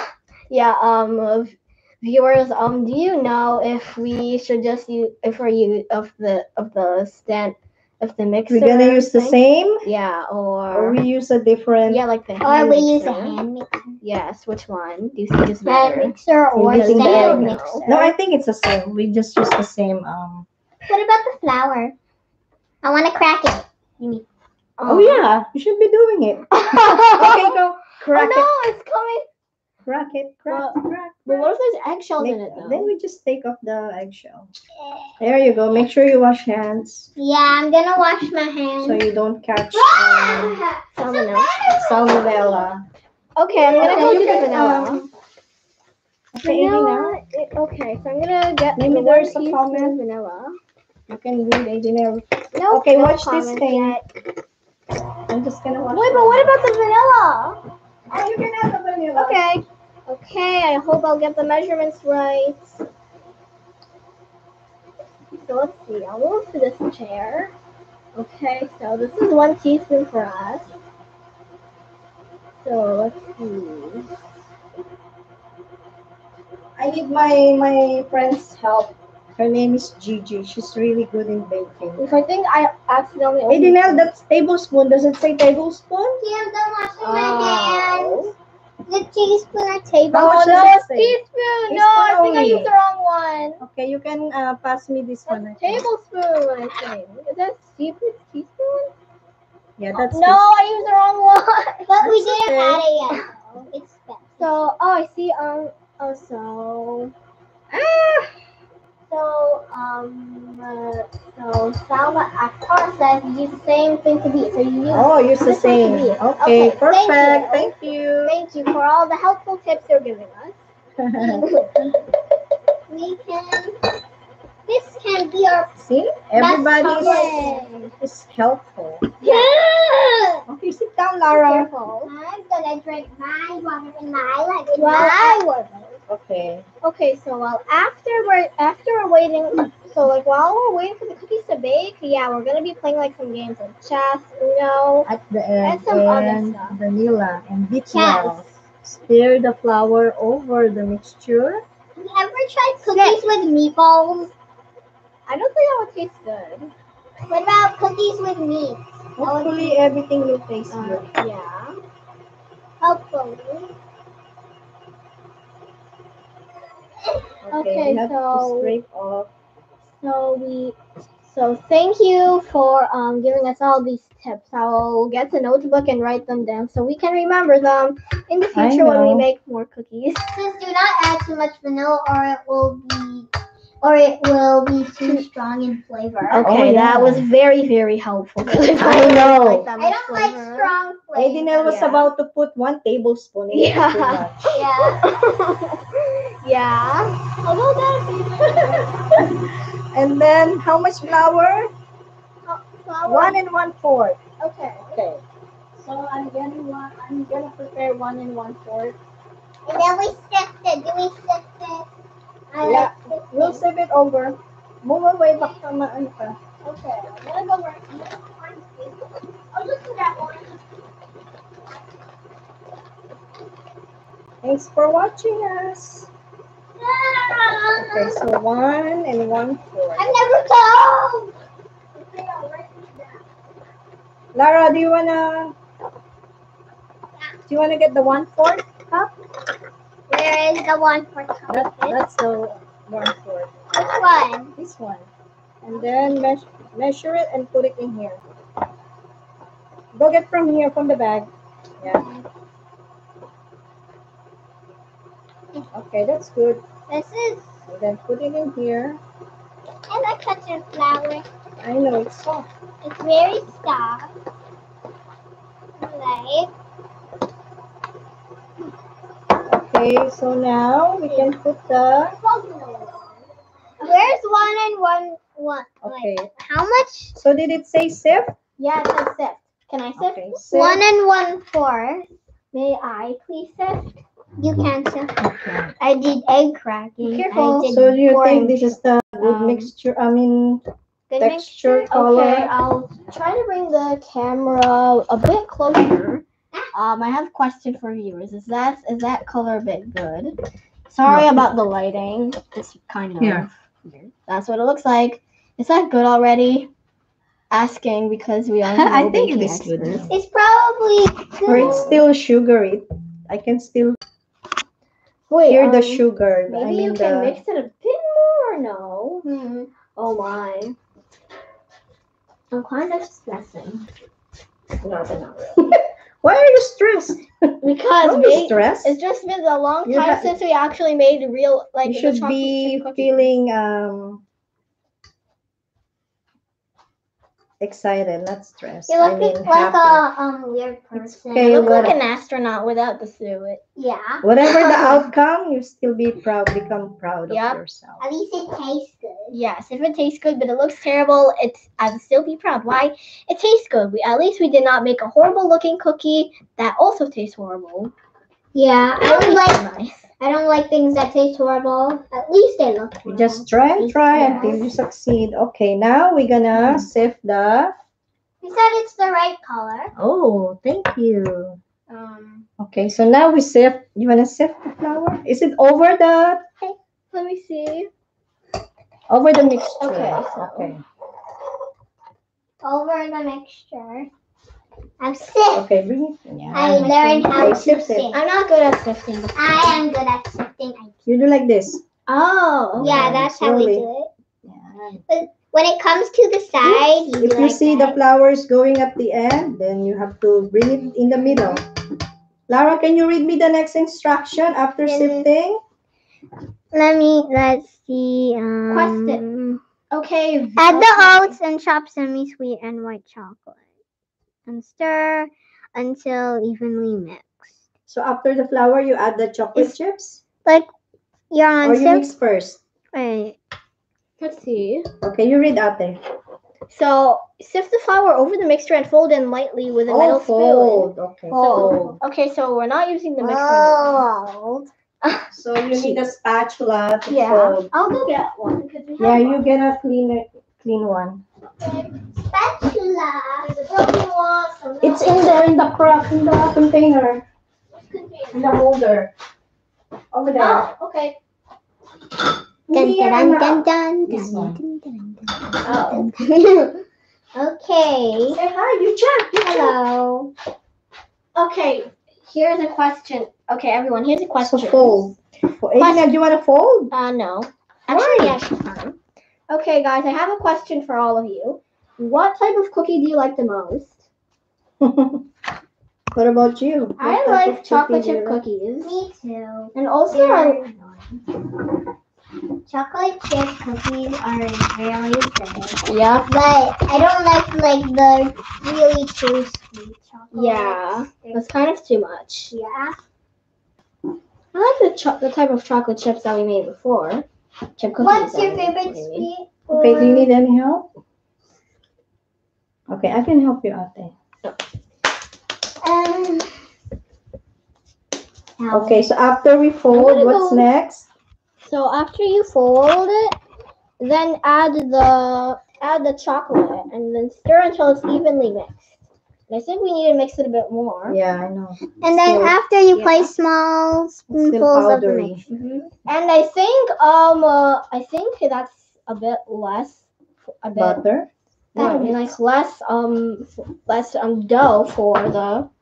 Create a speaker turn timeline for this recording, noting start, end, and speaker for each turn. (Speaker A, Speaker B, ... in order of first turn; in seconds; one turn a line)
Speaker A: 0.5-11.0
Speaker B: 8.5-9.8
Speaker B: 10.7-12.0
Speaker A: 11.9-13.4
Speaker C: 12.4-14.0
Speaker A: 14.0-16.1
Speaker C: 15.6-18.1
Speaker B: 16.5-20.5
Speaker A: 16.7-17.8
Speaker C: 20.9-21.9
Speaker C: 22.8-24.2
Speaker A: 24.8-25.3
Speaker B: 24.9-28.5
Speaker A: 26.5-27.6
Speaker A: 28.1-29.2
Speaker B: 29.8-31.5
Speaker A: 30.5-32.9
Speaker B: 32.2-34.5
Speaker C: 34.8-35.1
Speaker B: 35.2-37.1
Speaker C: 37.2-39.0
Speaker B: 38.8-40.6
Speaker C: 39.7-42.7
Speaker A: 40.9-41.6
Speaker B: 41.8-42.8
Speaker A: 43.4-45.0
Speaker C: 43.6-44.5
Speaker B: 43.7-45.0
Speaker B: 46.3-47.2
Speaker A: 46.4-50.6
Speaker B: 48.8-50.0
Speaker B: 51.1-54.0
Speaker A: 52.5-54.0
Speaker B: 55.3-56.5
Speaker A: 55.9-57.6
Speaker B: 58.1-59.4
Speaker A: 59.1-62.8
Speaker A: 65.4-67.5
Speaker A: 68.1-70.7
Speaker A: 72.6-74.1
Speaker B: 76.8-82.1
Speaker A: 82.0-84.1
Speaker B: 83.5-86.2
Speaker C: 86.2-88.2
Speaker A: 87.0-88.3
Speaker C: 88.8-90.7
Speaker B: 90.1-92.7
Speaker A: 90.1-93.6
Speaker B: 93.6-95.8
Speaker A: 95.3-98.9
Speaker B: 99.8-100.6
Speaker A: 99.9-103.2
Speaker C: 101.9-104.6
Speaker A: 104.4-107.1
Speaker A: 107.7-108.3
Speaker A: 109.1-120.6
Speaker B: 114.9-118.4
Speaker B: 121.0-121.9
Speaker C: 121.3-121.6
Speaker A: 121.4-121.7
Speaker C: 122.9-123.8
Speaker C: 124.7-125.7
Speaker B: 125.8-129.1
Speaker C: 126.3-127.9
Speaker A: 126.8-127.9
Speaker C: 129.2-129.6
Speaker A: 129.2-130.4
Speaker B: 130.5-131.7
Speaker A: 131.3-132.1
Speaker C: 132.0-136.0
Speaker A: 134.8-135.4
Speaker B: 136.1-136.7
Speaker A: 136.8-145.1
Speaker B: 145.1-151.6
Speaker A: 145.6-146.8
Speaker C: 147.9-148.4
Speaker C: 151.9-154.3
Speaker A: 152.8-153.2
Speaker A: 155.3-156.7
Speaker C: 157.3-159.8
Speaker B: 159.2-161.1
Speaker A: 160.7-161.8
Speaker C: 162.8-163.7
Speaker B: 167.4-169.3
Speaker A: 167.5-168.7
Speaker A: 170.0-170.8
Speaker A: 171.3-180.3
Speaker B: 178.5-179.2
Speaker C: 180.3-183.3
Speaker C: 183.8-186.5
Speaker A: 186.3-190.7
Speaker B: 186.4-187.2
Speaker B: 188.8-189.7
Speaker C: 189.8-191.8
Speaker B: 191.1-194.4
Speaker A: 191.6-192.1
Speaker A: 193.5-199.3
Speaker C: 194.5-195.1
Speaker B: 198.6-201.7
Speaker A: 202.4-203.4
Speaker B: 203.0-204.2
Speaker A: 204.4-205.2
Speaker B: 205.8-206.9
Speaker A: 206.9-208.9
Speaker C: 209.7-211.9
Speaker C: 212.5-213.6
Speaker A: 212.6-212.9
Speaker B: 212.6-216.4
Speaker A: 216.6-218.9
Speaker A: 219.5-220.6
Speaker B: 224.4-226.1
Speaker C: 226.8-228.2
Speaker B: 227.7-230.2
Speaker C: 229.9-231.3
Speaker A: 231.9-233.2
Speaker B: 234.3-235.5
Speaker B: 237.5-239.1
Speaker C: 240.1-242.0
Speaker B: 241.5-243.5
Speaker C: 243.7-244.5
Speaker B: 244.6-245.1
Speaker B: 245.6-248.3
Speaker B: 249.9-251.3
Speaker B: 251.8-252.1
Speaker C: 252.0-252.3
Speaker B: 255.7-256.6
Speaker C: 256.9-257.5
Speaker B: 257.7-259.0
Speaker C: 259.9-261.3
Speaker B: 261.6-262.5
Speaker C: 262.8-264.1
Speaker C: 265.8-266.5
Speaker B: 269.5-272.1
Speaker C: 272.2-273.2
Speaker C: 273.8-277.1
Speaker B: 275.8-276.3
Speaker B: 277.1-278.3
Speaker A: 278.6-280.4
Speaker B: 280.0-280.8
Speaker C: 280.5-282.1
Speaker A: 282.5-284.0
Speaker C: 284.4-285.1
Speaker B: 285.2-285.7
Speaker C: 285.8-288.1
Speaker A: 287.0-289.7
Speaker B: 287.7-290.6
Speaker C: 291.1-291.9
Speaker B: 291.2-292.5
Speaker A: 291.9-300.3
Speaker A: 300.9-306.7
Speaker B: 301.0-301.4
Speaker B: 303.2-303.5
Speaker A: 307.5-310.1
Speaker B: 308.7-310.1
Speaker C: 310.1-311.9
Speaker B: 311.5-314.0
Speaker A: 311.5-312.0
Speaker A: 315.3-319.3
Speaker B: 315.5-317.4
Speaker C: 319.2-319.7
Speaker A: 319.9-320.8
Speaker A: 322.5-323.9
Speaker A: 324.8-325.7
Speaker B: 326.2-329.0
Speaker A: 327.6-333.3
Speaker B: 329.9-330.4
Speaker B: 331.9-334.2
Speaker B: 337.6-340.0
Speaker C: 338.9-341.9
Speaker B: 340.9-342.0
Speaker A: 341.4-343.6
Speaker C: 343.8-344.2
Speaker B: 344.2-348.0
Speaker A: 344.4-345.1
Speaker A: 347.3-347.6
Speaker C: 348.0-349.3
Speaker A: 349.3-357.9
Speaker C: 358.5-359.6
Speaker A: 359.0-360.1
Speaker C: 360.2-364.7
Speaker B: 363.1-367.7
Speaker A: 364.1-364.5
Speaker C: 368.4-369.9
Speaker B: 369.9-371.6
Speaker A: 371.9-372.4
Speaker B: 372.6-376.4
Speaker A: 377.1-377.9
Speaker B: 379.1-380.8
Speaker A: 379.8-380.7
Speaker C: 382.6-384.1
Speaker C: 385.0-385.7
Speaker B: 385.5-388.1
Speaker C: 386.5-388.2
Speaker A: 388.1-389.7
Speaker C: 389.3-391.1
Speaker B: 391.1-391.8
Speaker A: 392.1-392.9
Speaker B: 392.8-393.8
Speaker C: 392.8-394.1
Speaker B: 394.4-395.0
Speaker C: 395.1-398.0
Speaker B: 396.6-401.6
Speaker C: 400.9-401.6
Speaker B: 402.5-405.6
Speaker C: 404.8-405.3
Speaker C: 406.7-409.6
Speaker A: 408.7-409.2
Speaker A: 409.9-411.4
Speaker C: 410.6-413.6
Speaker C: 414.5-417.6
Speaker B: 417.9-420.2
Speaker C: 421.3-422.1
Speaker B: 421.6-422.6
Speaker C: 422.9-423.4
Speaker A: 424.2-424.9
Speaker B: 425.0-426.0
Speaker A: 426.7-434.0
Speaker B: 429.9-432.0
Speaker C: 431.3-431.9
Speaker C: 433.2-434.7
Speaker A: 435.0-436.0
Speaker B: 435.3-437.7
Speaker A: 437.1-439.4
Speaker B: 439.0-441.2
Speaker C: 441.6-443.9
Speaker A: 443.4-445.3
Speaker B: 444.8-447.2
Speaker A: 447.8-448.6
Speaker B: 448.3-449.1
Speaker B: 450.1-450.7
Speaker A: 450.4-451.1
Speaker B: 452.7-454.6
Speaker C: 452.7-456.8
Speaker A: 455.6-456.1
Speaker C: 457.3-458.4
Speaker B: 458.3-459.7
Speaker C: 459.4-460.3
Speaker A: 461.3-465.1
Speaker B: 464.4-466.9
Speaker A: 465.8-466.1
Speaker A: 466.9-468.9
Speaker B: 467.9-468.4
Speaker A: 469.5-474.0
Speaker B: 474.8-475.2
Speaker B: 476.1-478.4
Speaker A: 477.0-478.9
Speaker C: 478.8-481.2
Speaker A: 479.7-480.6
Speaker C: 482.6-491.6
Speaker A: 485.9-486.3
Speaker A: 490.3-492.5
Speaker C: 492.5-493.0
Speaker A: 494.5-497.2
Speaker A: 497.8-499.3
Speaker C: 498.0-500.3
Speaker B: 499.7-500.9
Speaker B: 502.9-504.1
Speaker C: 505.8-506.6
Speaker C: 508.6-509.1
Speaker B: 508.7-511.1
Speaker A: 509.9-510.6
Speaker A: 511.6-513.3
Speaker A: 514.0-518.9
Speaker A: 519.5-521.2
Speaker B: 521.1-522.6
Speaker C: 522.0-525.4
Speaker A: 522.9-523.3
Speaker B: 524.3-525.4
Speaker A: 525.5-530.1
Speaker A: 530.6-531.0
Speaker B: 530.8-531.3
Speaker A: 531.7-535.7
Speaker C: 531.8-532.2